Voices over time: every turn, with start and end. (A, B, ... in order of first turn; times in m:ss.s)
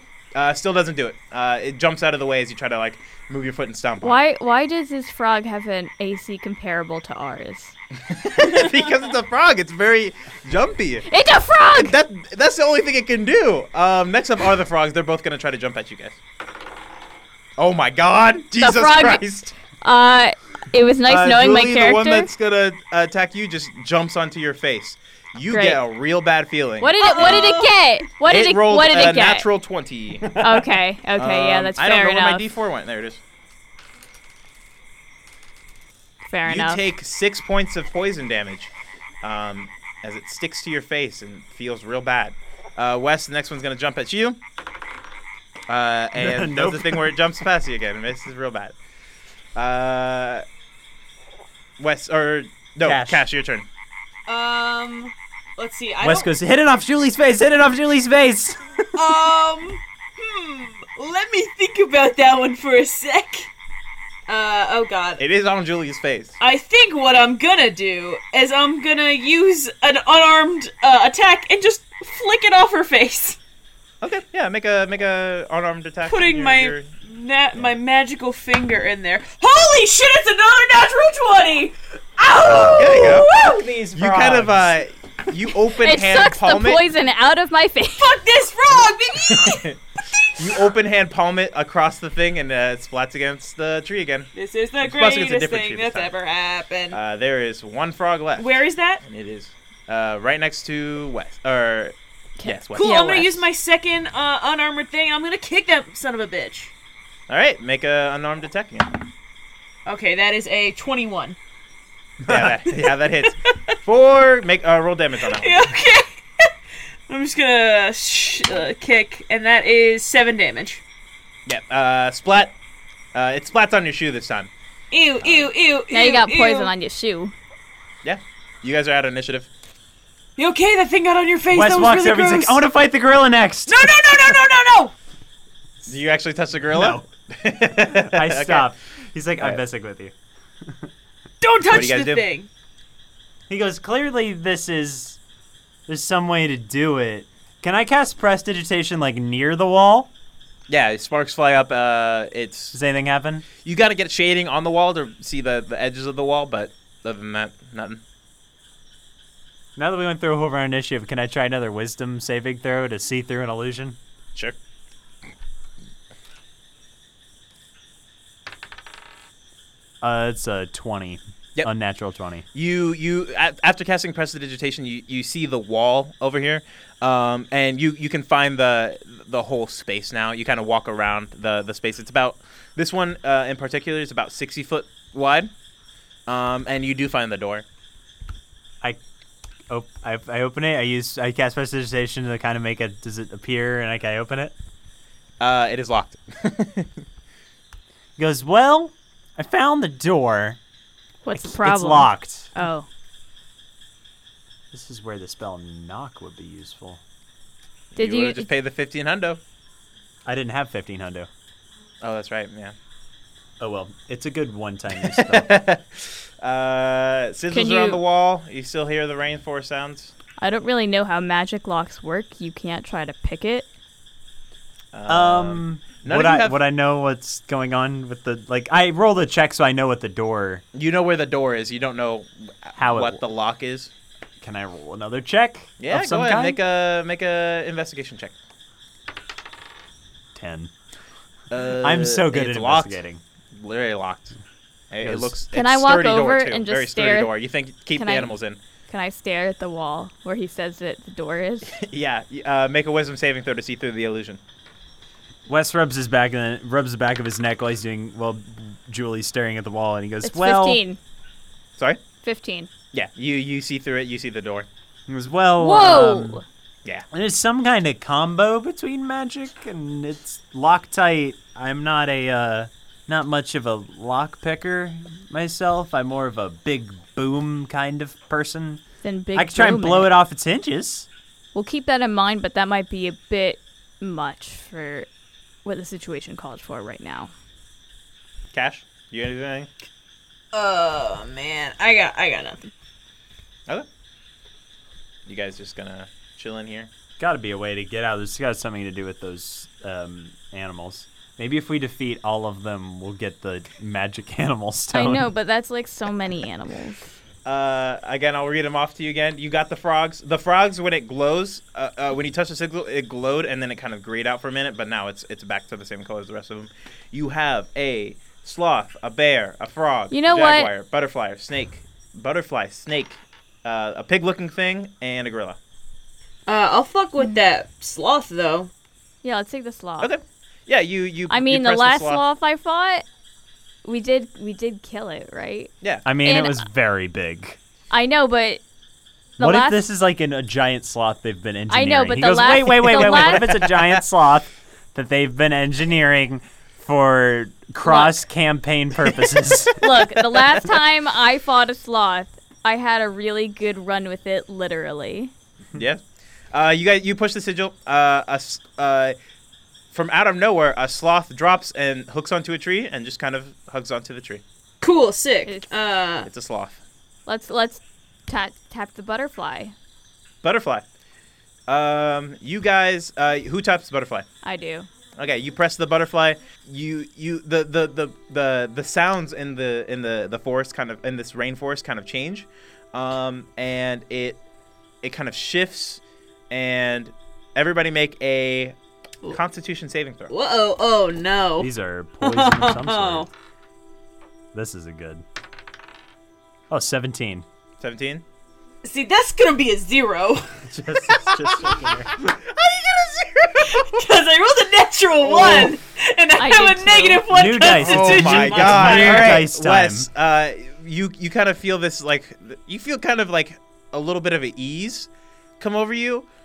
0:00.4-0:04.2 A
0:04.0-0:07.8 B
0:08.0-0:11.1 A
0:11.1-0:11.9 B
0:11.8-0:16.2 A
0:17.6-0:19.5 A
0:18.6-0:22.3 B
0:21.1-0:27.5 A
0:25.5-0:25.8 B
0:26.8-0:29.5 B
0:27.0-0:27.8 C
0:28.2-0:30.3 A
0:30.3-0:30.6 D
0:30.4-0:32.5 B
0:31.2-0:33.2 A
0:36.3-0:36.8 B
0:36.4-0:38.7 A
0:39.2-0:44.4 A
0:45.7-0:48.8 A
0:46.2-0:47.2 D
0:49.6-0:50.4 A
0:51.8-0:53.7 A
0:52.8-0:53.3 D
0:54.3-0:56.3 C
0:56.0-0:59.2 D
0:59.0-1:03.5 C
1:04.3-1:05.2 C
1:05.2-1:06.4 A
1:06.4-1:13.4 C
1:14.0-1:16.9 A
1:16.0-1:23.7 C
1:22.5-1:24.8 D
1:22.6-1:23.3 A
1:23.9-1:26.8 A
1:25.7-1:28.2 B
1:28.0-1:29.7 C
1:29.3-1:29.8 A
1:30.3-1:36.1 A
1:34.3-1:37.0 C
1:36.9-1:43.1 A
1:38.4-1:39.0 C
1:42.4-1:43.4 B
1:42.8-1:46.7 C
1:47.3-1:49.0 A
1:49.8-1:51.4 C
1:52.2-1:55.6 A
1:52.3-1:52.6 D
1:53.0-1:53.6 C
1:55.2-1:56.5 C
1:57.1-2:00.8 C
2:01.5-2:02.6 A
2:03.1-2:04.5 A
2:04.9-2:06.7 C
2:05.2-2:05.5 A
2:05.9-2:07.3 B
2:08.0-2:09.5 A
2:10.4-2:12.6 C
2:11.5-2:14.0 D
2:13.7-2:14.9 C
2:15.8-2:18.7 A
2:16.7-2:17.0 D
2:17.9-2:20.9 D
2:21.4-2:22.5 C
2:21.6-2:22.3 A
2:23.5-2:25.2 D
2:25.9-2:30.1 D
2:30.7-2:32.8 A
2:32.7-2:33.4 D
2:33.6-2:38.0 A
2:39.8-2:44.0 D
2:50.0-2:52.4 D
2:52.5-3:05.5 A
3:06.3-3:07.6 A
3:09.7-3:14.5 D
3:15.4-3:16.9 A
3:18.2-3:20.6 D
3:21.2-3:22.9 B
3:21.3-3:22.5 D
3:24.7-3:27.0 D
3:28.0-3:29.4 A
3:28.0-3:28.5 B
3:30.2-3:31.3 D
3:32.0-3:32.8 A
3:33.6-3:35.6 D
3:35.0-3:40.1 A
3:37.5-3:38.0 B
3:40.4-3:43.7 B
3:44.9-3:46.6 A
3:45.1-3:50.6 D
3:50.7-3:53.9 A
3:52.8-3:53.2 D
3:54.4-3:56.6 D
3:55.8-3:58.4 A
4:00.4-4:00.7 D
4:01.5-4:03.0 A
4:01.8-4:03.2 D
4:03.5-4:04.4 A
4:04.9-4:08.6 A
4:05.0-4:05.4 D
4:05.5-4:07.3 B
4:08.0-4:08.4 B
4:08.9-4:11.8 B
4:11.7-4:14.4 A
4:15.5-4:20.8 D
4:20.2-4:21.0 B
4:22.2-4:22.7 B
4:22.9-4:24.7 A
4:25.1-4:26.4 D
4:25.6-4:26.4 B
4:27.1-4:38.8 D
4:39.0-4:40.1 B
4:39.4-4:41.1 D
4:41.5-4:45.1 B
4:45.6-4:47.3 B
4:48.5-4:49.7 A
4:50.5-4:52.7 C
4:55.3-4:56.9 A
4:57.2-5:05.3 D
5:04.9-5:07.1 B
5:07.4-5:25.6 A
5:20.1-5:20.7 B
5:26.5-5:28.7 C
5:29.2-5:30.1 B
5:30.0-5:32.2 A
5:31.3-5:33.0 B
5:33.8-5:35.7 B
5:36.0-5:37.6 D
5:36.2-5:36.6 B
5:37.9-5:38.6 B
5:39.4-5:39.8 B
5:39.4-5:50.0 D
5:41.7-5:43.6 B
5:43.0-5:44.0 A
5:47.8-5:48.2 B
5:49.8-5:55.3 B
5:55.7-5:59.2 A
5:59.9-6:04.4 A
6:04.8-6:06.3 C
6:06.2-6:06.8 A
6:07.3-6:09.7 B
6:10.4-6:10.8 A
6:11.7-6:14.3 A
6:14.4-6:14.9 B
6:15.2-6:24.4 A
6:25.0-6:28.8 A
6:29.3-6:30.3 A
6:30.3-6:31.7 C
6:31.6-6:33.3 D
6:32.2-6:33.3 C
6:34.5-6:35.2 D
6:36.7-6:37.4 D
6:37.8-6:38.2 A
6:38.8-6:40.6 C
6:40.7-6:42.2 D
6:42.2-6:44.0 A
6:43.6-6:49.4 C
6:45.2-6:45.7 A
6:46.4-6:47.6 B
6:47.3-6:50.1 D
6:47.7-6:55.1 A
6:55.6-6:56.3 A